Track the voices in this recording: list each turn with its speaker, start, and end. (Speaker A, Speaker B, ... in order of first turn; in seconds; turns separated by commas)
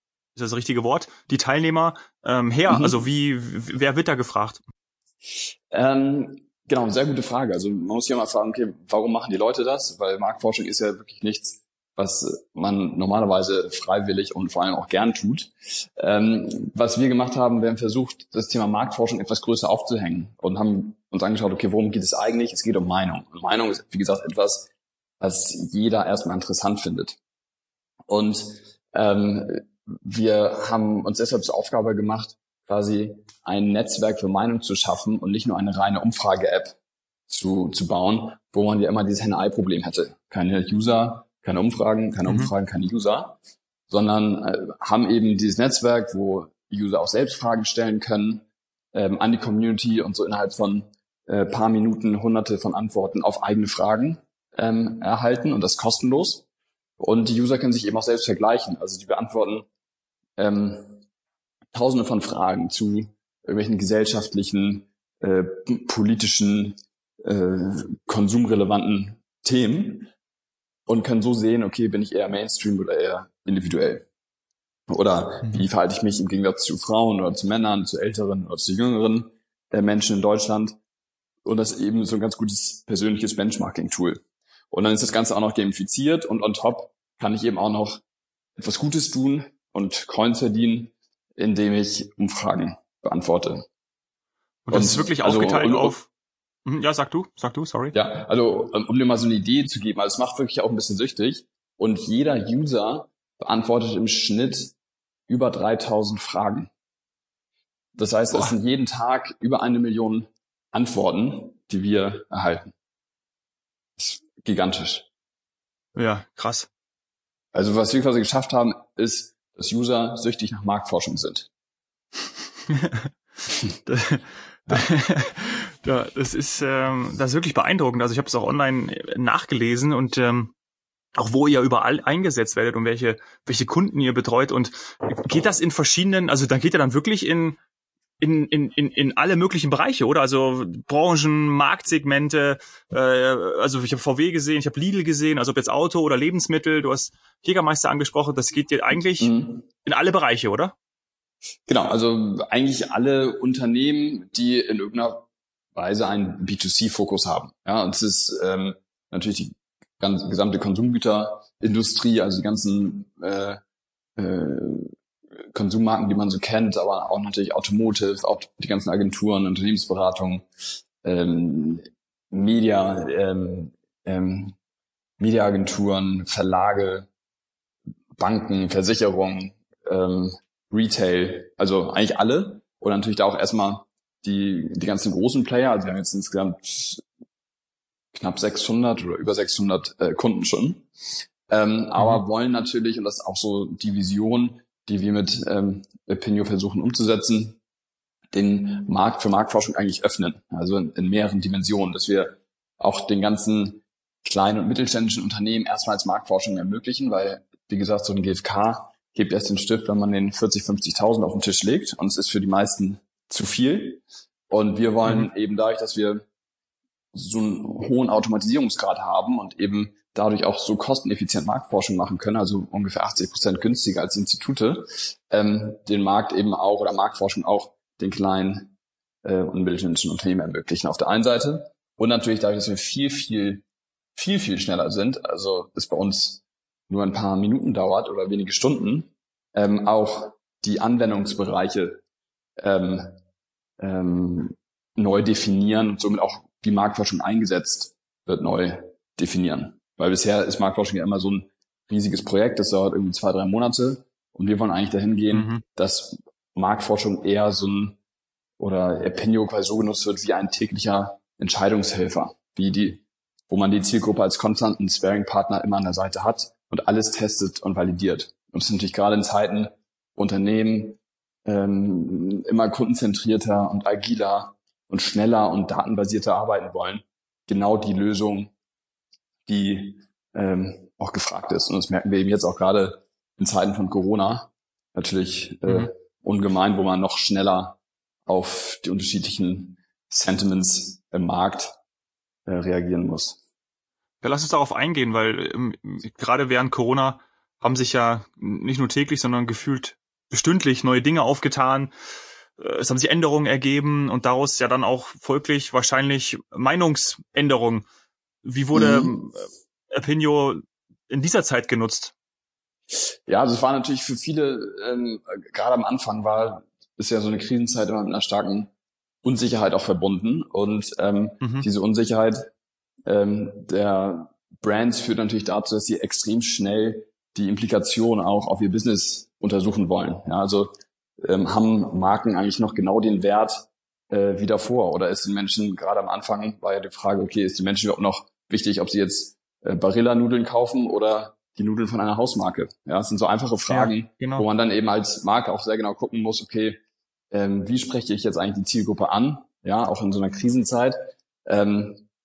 Speaker A: 0.3-4.6, Speaker B: 2.7-3.0, Speaker B: 5.7-24.7, Speaker B: 25.2-27.2, Speaker B: 28.1-36.8, Speaker B: 37.3-43.4, Speaker A: 42.2-42.5, Speaker B: 43.9-56.4, Speaker B: 57.0-59.7, Speaker B: 60.4-61.0, Speaker B: 61.7-70.1, Speaker B: 70.9-74.1, Speaker B: 74.9-80.8, Speaker B: 81.4-84.2, Speaker B: 84.7-88.0, Speaker B: 88.6-93.7, Speaker A: 94.7-96.1, Speaker B: 94.7-96.0, Speaker A: 96.7-97.9, Speaker B: 97.9-104.7, Speaker B: 105.3-106.7, Speaker B: 107.9-112.7, Speaker B: 114.0-115.1, Speaker A: 115.9-116.7, Speaker B: 117.5-121.5, Speaker A: 122.7-123.1, Speaker A: 123.9-130.5, Speaker A: 131.2-137.6, Speaker A: 138.2-149.3, Speaker B: 149.2-149.6, Speaker A: 149.8-150.7, Speaker B: 151.7-163.6, Speaker B: 164.2-164.9, Speaker B: 165.4-170.5, Speaker B: 171.0-174.6, Speaker B: 175.2-177.1, Speaker B: 178.2-187.0, Speaker B: 188.1-190.9, Speaker B: 191.5-197.6, Speaker B: 198.3-216.2, Speaker B: 217.1-228.7, Speaker B: 229.2-233.6, Speaker B: 234.1-242.0, Speaker B: 242.6-243.2, Speaker B: 243.8-258.0, Speaker A: 255.3-255.6, Speaker B: 258.6-278.5, Speaker B: 279.5-291.8, Speaker B: 292.5-293.4, Speaker A: 294.2-301.9, Speaker A: 302.6-307.9, Speaker A: 308.4-312.1, Speaker B: 308.7-309.1, Speaker B: 312.9-318.7, Speaker B: 319.2-322.5, Speaker A: 321.4-321.6, Speaker B: 323.1-346.8, Speaker A: 343.7-344.5, Speaker B: 347.3-352.0